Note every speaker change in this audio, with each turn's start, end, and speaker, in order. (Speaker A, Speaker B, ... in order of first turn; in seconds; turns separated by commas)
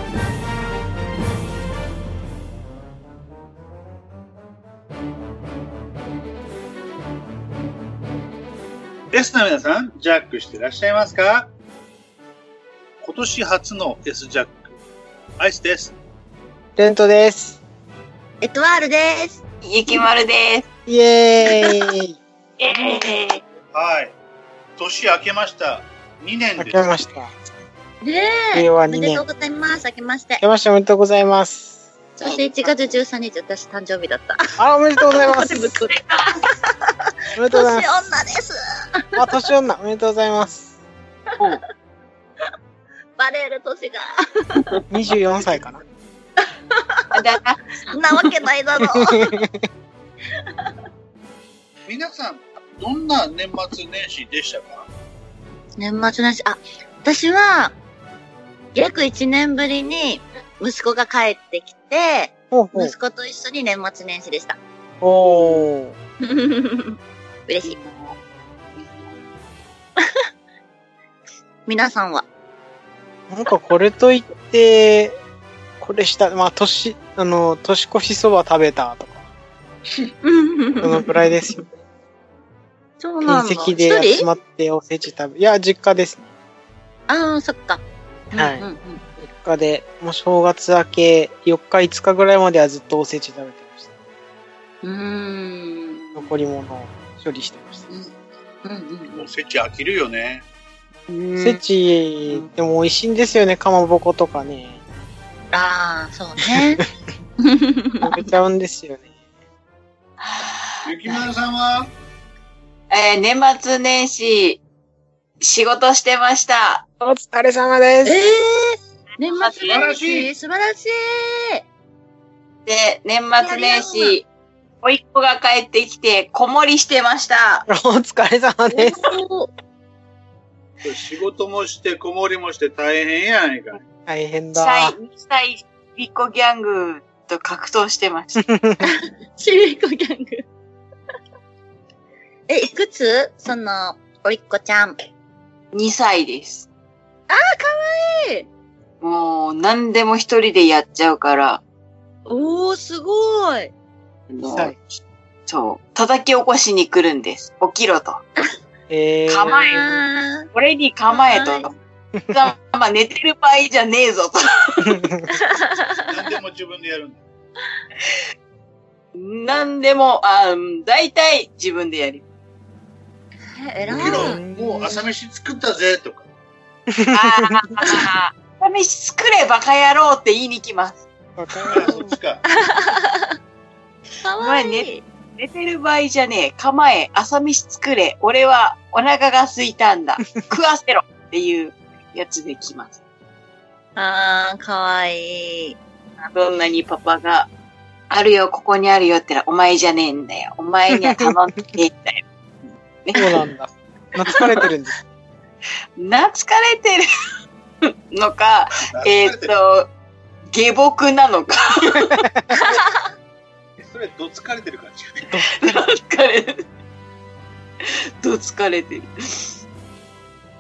Speaker A: 9.1-11.5, Speaker A: 13.0-14.8, Speaker A: 15.4-15.9, Speaker B: 16.8-17.6, Speaker C: 18.4-19.4, Speaker D: 19.6-20.7, Speaker B: 20.9-22.2, Speaker D: 22.6-23.4, Speaker A: 23.7-24.1, Speaker A: 24.8-26.9, Speaker B: 26.6-27.3, Speaker C: 28.0-30.4, Speaker B: 28.5-29.2, Speaker B: 30.4-31.8, Speaker C: 32.2-36.9, Speaker B: 34.6-35.8, Speaker B: 37.3-38.1, Speaker C: 37.5-39.1, Speaker B: 39.1-40.7, Speaker C: 43.2-44.7, Speaker B: 44.9-45.8, Speaker A: 45.0-45.6, Speaker C: 46.7-47.2, Speaker D: 47.1-48.3, Speaker C: 47.9-49.4, Speaker B: 48.9-49.5, Speaker A: 51.9-54.9, Speaker C: 55.8-57.8, Speaker C: 58.7-64.6, Speaker B: 62.5-62.9, Speaker B: 65.0-65.9, Speaker D: 65.2-65.6, Speaker C: 66.2-67.8, Speaker D: 67.6-68.2, Speaker D: 68.8-69.2, Speaker C: 71.7-72.3, Speaker B: 73.3-75.2, Speaker B: 75.8-79.3, Speaker C: 80.2-81.2, Speaker B: 80.8-81.6, Speaker C: 83.0-84.3, Speaker B: 83.2-86.3, Speaker C: 87.1-89.0, Speaker B: 88.3-88.7, Speaker B: 89.2-93.9, Speaker C: 94.8-96.3, Speaker B: 96.1-97.9, Speaker C: 98.6-99.2, Speaker A: 99.1-100.4, Speaker D: 101.1-101.6, Speaker B: 101.4-104.8, Speaker C: 105.5-106.8, Speaker B: 106.4-106.9, Speaker C: 107.4-108.2, Speaker B: 108.0-109.1, Speaker D: 110.2-110.7, Speaker A: 110.8-111.9, Speaker D: 112.9-114.6, Speaker D: 115.4-116.8, Speaker B: 117.0-118.3, Speaker C: 118.0-121.6, Speaker D: 119.3-119.7, Speaker A: 119.6-120.3, Speaker D: 122.7-124.2, Speaker C: 123.4-124.2, Speaker D: 124.8-127.7, Speaker B: 127.7-129.1, Speaker C: 128.7-129.5, Speaker A: 130.8-133.8, Speaker B: 134.1-134.9, Speaker D: 134.6-138.4, Speaker B: 138.3-138.9, Speaker C: 138.8-140.4, Speaker C: 142.5-145.0, Speaker D: 145.7-146.7, Speaker C: 147.3-148.5, Speaker D: 149.0-151.6, Speaker C: 152.2-153.7, Speaker D: 154.3-154.8, Speaker B: 154.4-154.8, Speaker D: 155.5-158.2, Speaker B: 158.9-160.0, Speaker D: 159.3-159.8, Speaker C: 159.7-160.4, Speaker D: 160.5-161.7, Speaker C: 161.1-161.7, Speaker B: 162.2-162.4, Speaker D: 162.3-165.0, Speaker B: 164.8-165.3, Speaker C: 165.3-166.2, Speaker A: 166.1-167.2, Speaker D: 169.1-172.2, Speaker C: 173.5-175.0, Speaker B: 173.9-174.8, Speaker A: 173.9-176.3, Speaker B: 176.9-177.7, Speaker D: 177.1-181.0, Speaker C: 177.8-178.1, Speaker B: 181.4-182.1, Speaker A: 181.7-182.4, Speaker C: 182.4-183.4, Speaker C: 184.2-185.0, Speaker D: 184.4-193.0, Speaker C: 193.9-195.8, Speaker D: 196.2-197.5, Speaker D: 198.1-202.2, Speaker D: 203.0-203.3, Speaker B: 203.1-204.9, Speaker D: 206.0-207.1, Speaker D: 207.8-209.9, Speaker A: 208.8-209.5, Speaker D: 210.5-212.2, Speaker B: 212.1-212.5, Speaker C: 212.5-212.9, Speaker A: 213.8-215.3, Speaker B: 215.3-215.8, Speaker D: 215.6-216.6, Speaker D: 217.8-219.6